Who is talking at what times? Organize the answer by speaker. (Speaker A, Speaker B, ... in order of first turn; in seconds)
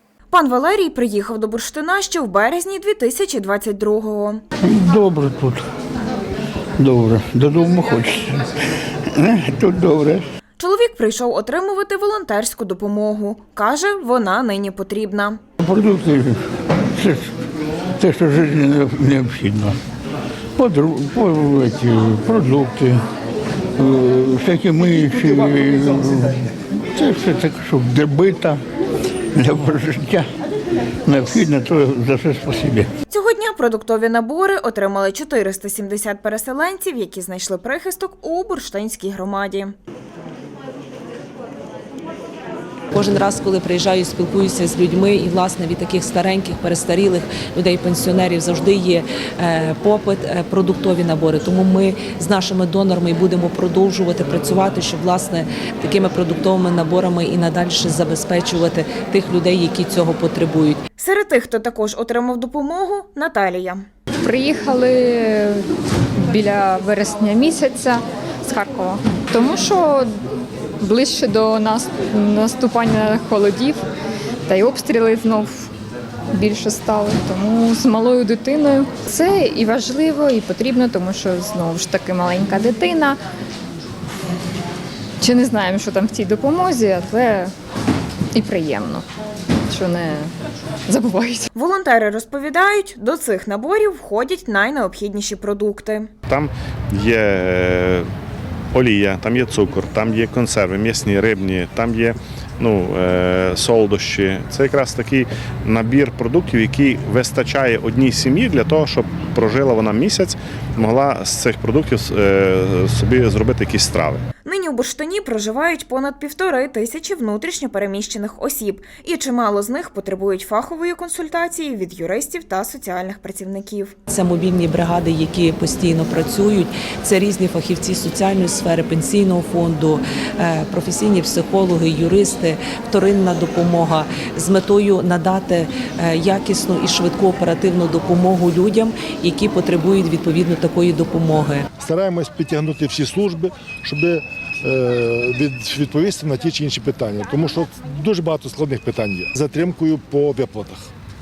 Speaker A: 0.3-4.4, 10.6-15.4, 33.1-39.7, 61.0-63.9, 91.5-96.1, 114.4-124.0
Speaker B: 4.6-5.6, 6.8-8.4, 9.1-10.2, 15.6-17.4, 18.0-19.8, 20.6-23.0, 23.8-28.6, 29.4-30.3, 31.1-32.9
Speaker C: 42.9-60.8, 124.1-141.7
Speaker D: 64.2-65.7, 66.2-70.1, 70.8-73.8, 74.5-75.7, 76.3-83.2, 85.2-87.5, 88.3-89.0, 89.7-90.3, 90.9-91.5
Speaker E: 96.3-98.1, 98.7-114.2
Speaker F: 141.8-150.9